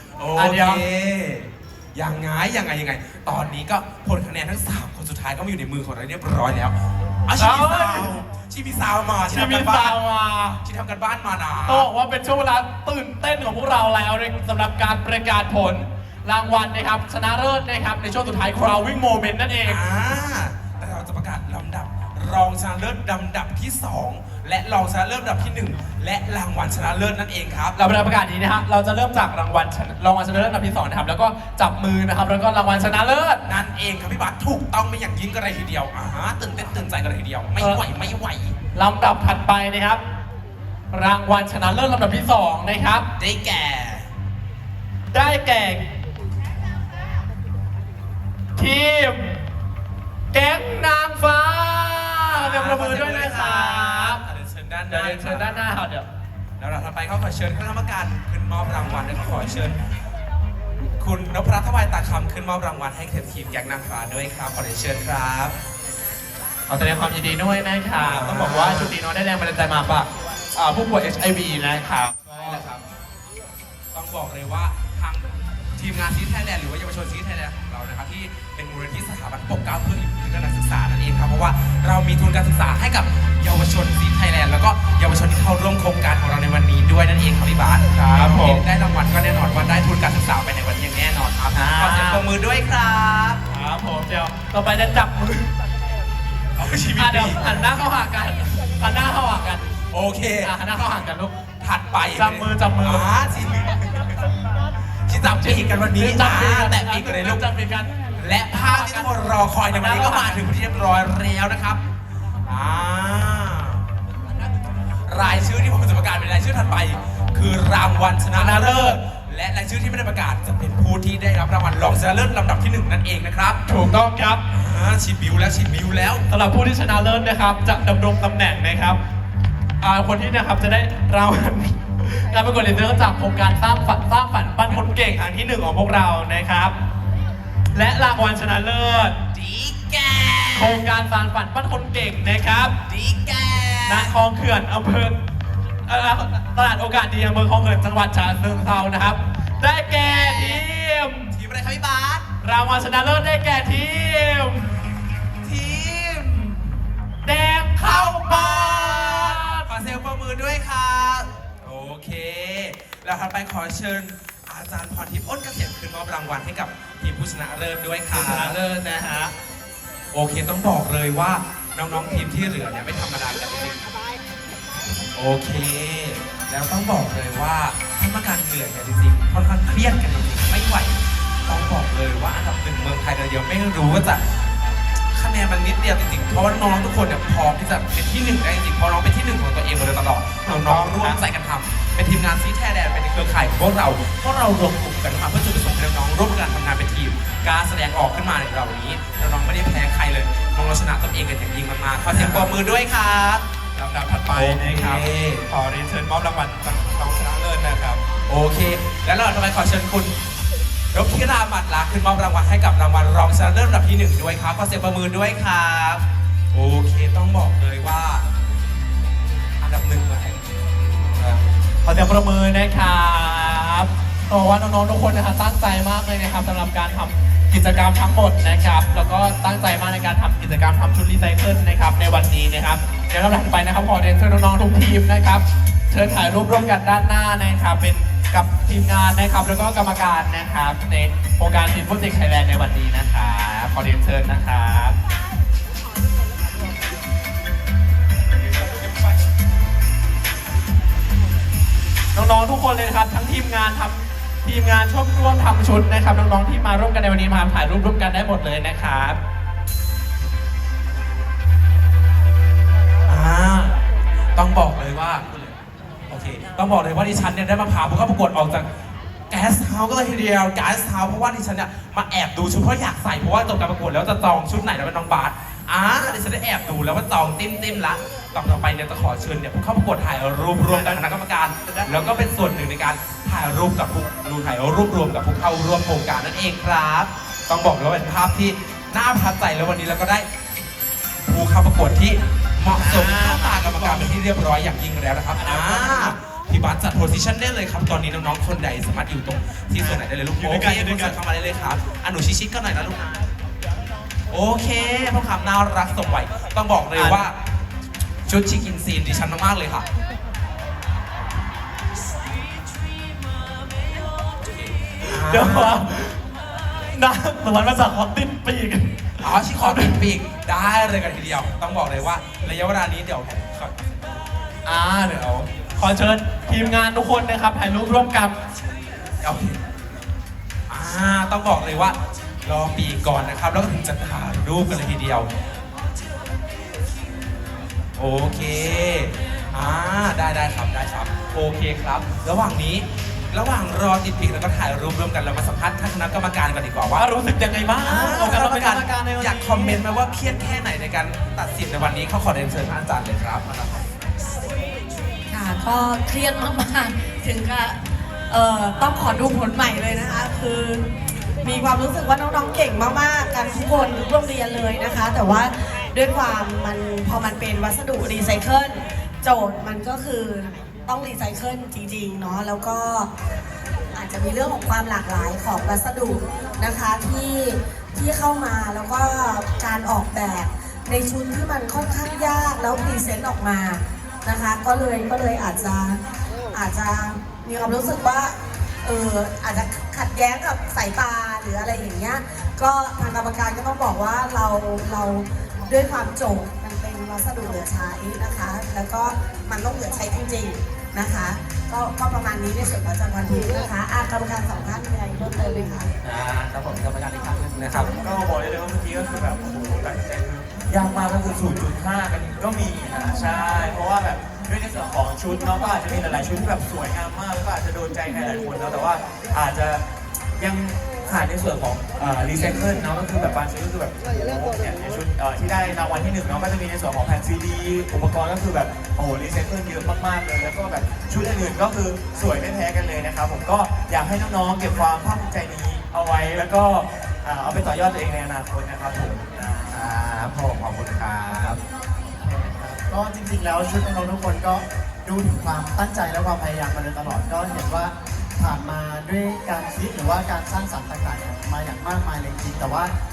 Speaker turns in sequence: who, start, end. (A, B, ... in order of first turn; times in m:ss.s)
0:00.2-0:10.0 A
0:00.4-0:00.8 B
0:07.4-0:08.2 B
0:09.2-0:10.6 B
0:10.6-0:11.9 A
0:11.6-0:19.8 B
0:19.6-0:27.8 A
0:27.8-0:33.4 B
0:33.4-0:38.6 A
0:37.6-0:37.8 B
0:38.8-0:40.0 B
0:40.9-0:43.1 B
0:43.2-0:44.1 A
0:45.1-0:45.8 B
0:48.6-0:49.4 B
0:50.3-0:54.2 B
0:52.4-0:55.6 A
0:54.9-0:56.1 B
0:56.6-0:59.8 A
1:01.0-1:05.5 A
1:06.7-1:12.7 B
1:08.0-1:08.9 A
1:12.3-1:12.8 A
1:13.9-1:33.4 A
1:28.1-1:28.6 B
1:31.5-1:32.3 B
1:33.5-1:35.5 B
1:36.6-1:37.5 A
1:37.0-1:39.6 B
1:39.9-1:40.5 A
1:40.4-1:41.4 B
1:41.6-1:44.2 A
1:42.1-1:43.2 B
1:45.1-1:47.4 A
1:45.3-1:48.0 B
1:48.2-1:51.8 A
1:48.5-1:50.4 B
1:52.4-1:53.9 A
1:55.1-2:03.6 A
1:58.3-1:59.0 B
2:03.7-2:04.4 B
2:04.5-2:06.3 A
2:06.3-2:09.0 B
2:09.8-2:16.7 B
2:17.7-2:19.2 B
2:19.3-2:20.8 A
2:20.6-2:22.8 B
2:22.9-2:24.1 A
2:23.9-2:25.2 B
2:25.9-2:31.4 B
2:31.3-2:32.3 A
2:32.4-2:34.7 B
2:35.4-2:36.8 A
2:37.2-2:39.7 B
2:37.8-2:48.6 A
2:48.1-2:49.3 B
2:50.1-2:53.9 A
2:55.1-3:04.3 A
3:05.1-3:23.4 A
3:10.5-3:11.2 B
3:22.1-3:22.5 B
3:23.8-3:28.0 B
3:24.3-3:25.5 A
3:28.1-3:30.2 A
3:30.9-3:38.2 A
3:39.6-3:40.4 A
3:41.1-3:41.4 A
3:41.8-4:05.0 B
4:12.1-4:19.2 B
4:23.1-4:23.8 A
4:24.4-4:28.7 A
4:29.3-4:50.3 A
4:40.7-4:41.1 B
4:41.6-4:42.2 B
4:51.3-5:03.3 A
4:52.8-4:54.2 B
4:55.4-4:56.1 B
4:59.8-5:01.2 B
5:04.3-5:07.3 A
5:06.9-5:07.2 B
5:08.3-5:09.9 A
5:14.3-5:15.8 A
5:15.0-5:16.2 B
5:16.9-5:20.0 B
5:19.2-5:23.8 A
5:24.6-5:28.4 B
5:29.2-5:29.6 A
5:30.7-5:35.3 A
5:38.0-5:47.0 A
5:47.0-5:49.8 B
5:47.8-5:53.8 A
5:55.3-6:00.9 C
6:01.4-6:13.1 C
6:14.0-6:26.0 C
6:26.5-6:45.9 C
6:46.0-6:47.9 B
6:47.7-6:59.8 D
7:00.4-7:19.8 D
7:19.7-7:21.6 B
7:22.2-7:32.9 E